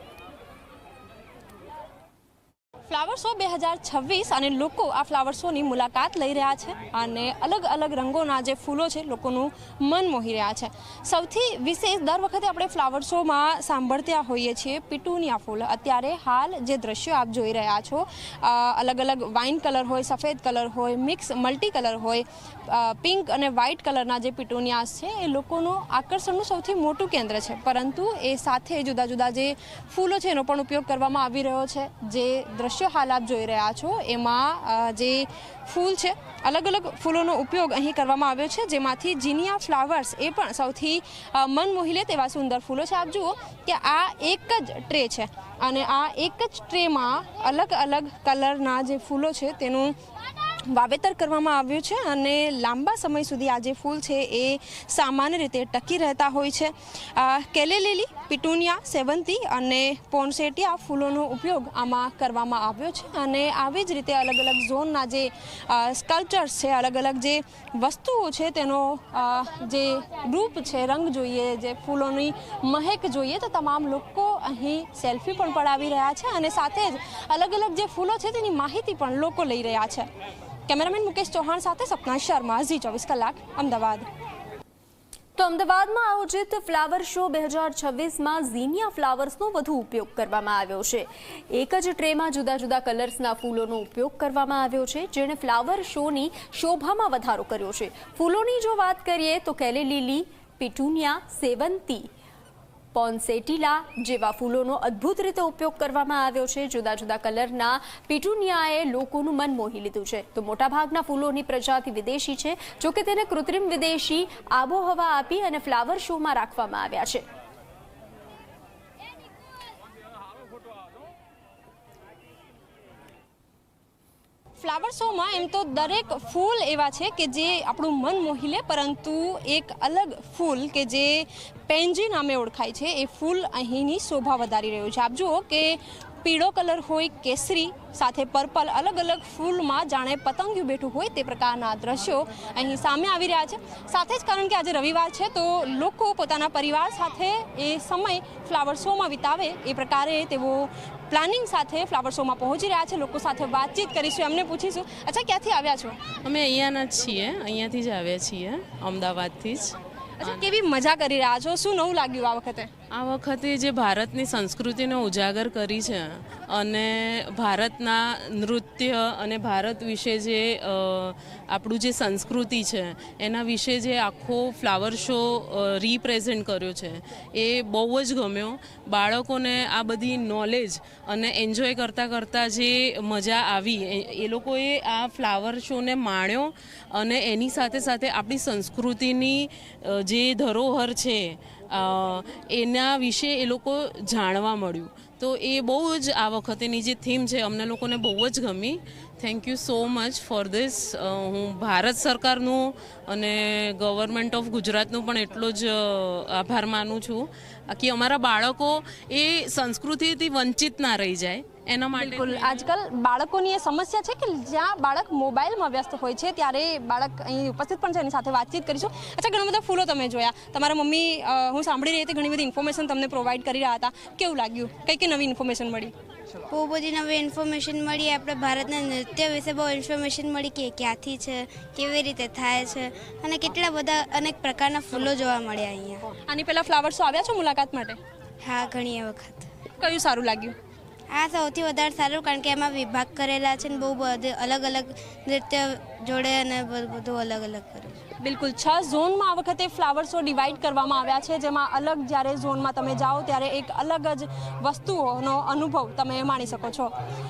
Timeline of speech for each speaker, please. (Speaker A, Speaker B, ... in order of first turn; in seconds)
Speaker A: 2.9-49.9, 50.7-80.1, 80.7-84.0, 124.6-156.0, 160.2-162.7, 211.9-225.9, 236.2-238.0, 239.8-240.6, 248.2-256.9
Speaker B: 85.4-102.1, 102.9-117.2
Speaker C: 156.2-160.4, 162.9-212.7
Speaker D: 226.5-236.1, 238.4-239.5, 241.1-248.0